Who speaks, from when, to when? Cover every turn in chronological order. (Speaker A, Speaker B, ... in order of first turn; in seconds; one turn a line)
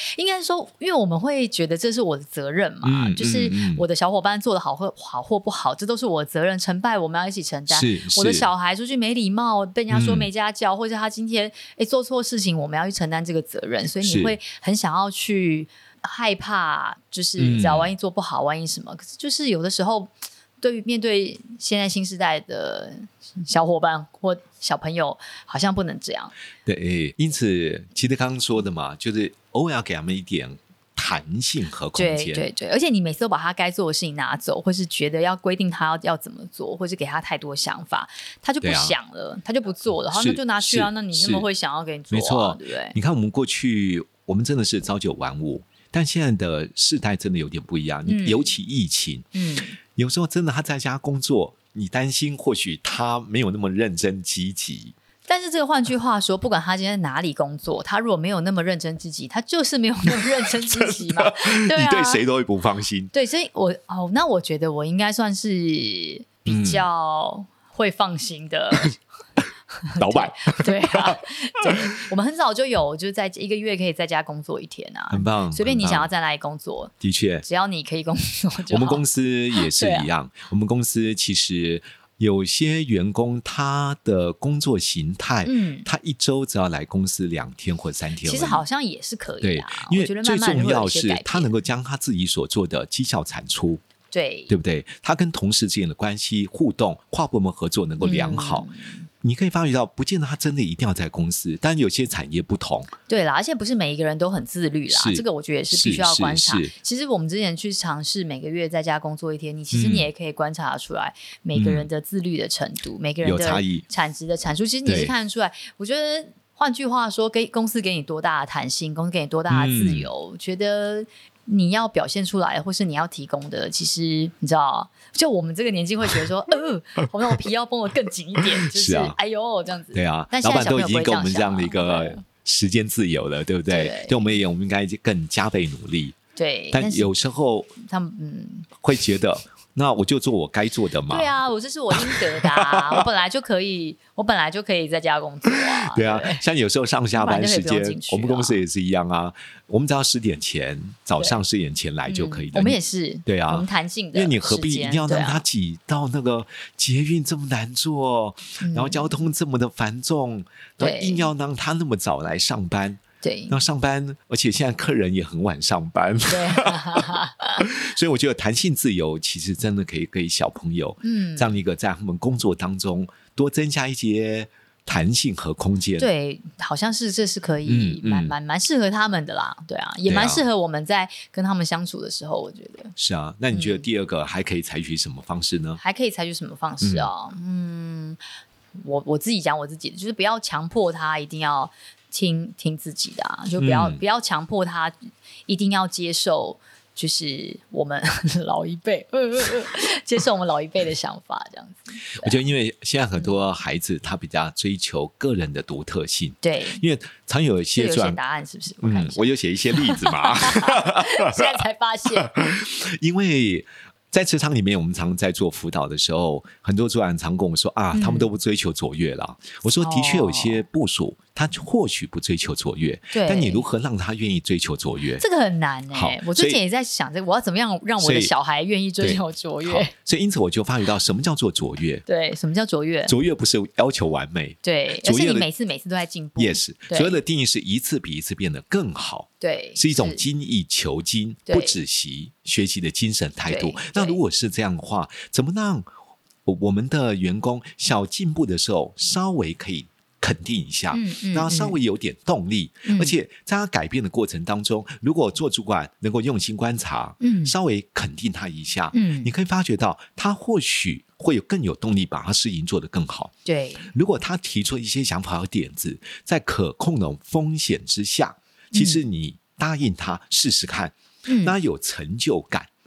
Speaker A: 0.1-26.3
Speaker B: 2.8-3.8
Speaker B: 7.7-8.5
Speaker B: 9.9-10.3
Speaker B: 14.0-14.3
Speaker B: 17.4-17.9
Speaker B: 26.6-32.5
Speaker A: 31.9-43.0
Speaker B: 38.6-39.0
Speaker B: 40.1-41.5
Speaker B: 42.1-54.9
Speaker A: 48.0-48.5
Speaker A: 49.3-49.8
Speaker A: 55.3-62.2
Speaker B: 60.6-63.1
Speaker A: 63.1-69.0
Speaker B: 66.5-66.8
Speaker A: 69.8-76.9
Speaker B: 70.0-71.9
Speaker B: 75.1-76.1
Speaker B: 77.0-77.5
Speaker A: 77.4-80.1
Speaker B: 78.7-88.6
Speaker A: 85.4-85.9
Speaker A: 88.2-91.5
Speaker B: 89.4-93.8
Speaker A: 94.1-94.5
Speaker B: 94.5-98.7
Speaker A: 98.0-99.1
Speaker B: 99.2-102.9
Speaker A: 103.1-132.2
Speaker B: 104.9-106.7
Speaker B: 109.7-110.1
Speaker B: 111.5-111.9
Speaker B: 113.2-113.8
Speaker B: 114.8-115.1
Speaker B: 119.5-120.1
Speaker B: 128.6-129.2
Speaker B: 129.9-136.2
Speaker A: 133.7-134.4
Speaker A: 136.3-137.1
Speaker B: 136.7-137.7
Speaker A: 137.8-138.7
Speaker B: 138.8-141.3
Speaker A: 141.1-146.4
Speaker B: 141.9-143.0
Speaker B: 145.5-167.1
Speaker A: 147.2-148.6
Speaker A: 152.1-155.4
Speaker A: 158.6-159.2
Speaker A: 160.8-161.3
Speaker A: 163.2-163.6
Speaker A: 166.3-167.7
Speaker B: 167.6-176.1
Speaker A: 171.0-171.5
Speaker A: 176.0-182.9
Speaker B: 177.6-178.3
Speaker B: 180.1-180.4
Speaker B: 183.0-185.8
Speaker A: 183.5-183.8
Speaker A: 185.8-188.2
Speaker B: 186.8-187.1
Speaker A: 188.8-202.3
Speaker B: 193.6-194.0
Speaker B: 202.2-208.2
Speaker A: 206.4-206.8
Speaker A: 207.8-212.3
Speaker B: 208.8-211.6
Speaker B: 212.2-225.2
Speaker A: 217.9-218.3
Speaker A: 219.8-220.6
Speaker A: 223.1-223.6
Speaker A: 225.2-229.9
Speaker B: 225.9-226.6
Speaker B: 228.0-228.3
Speaker B: 229.0-232.0
Speaker A: 232.1-233.1
Speaker B: 233.1-235.5
Speaker A: 234.6-237.2
Speaker B: 236.4-245.9
Speaker A: 239.4-240.2
Speaker A: 241.5-241.8
Speaker A: 243.5-244.2
Speaker B: 246.4-263.3
Speaker A: 250.9-251.8
Speaker A: 252.8-253.1
Speaker A: 257.2-257.5
Speaker A: 258.9-259.3
Speaker A: 263.4-263.9
Speaker B: 263.9-272.7
Speaker A: 268.7-269.0
Speaker A: 271.2-271.6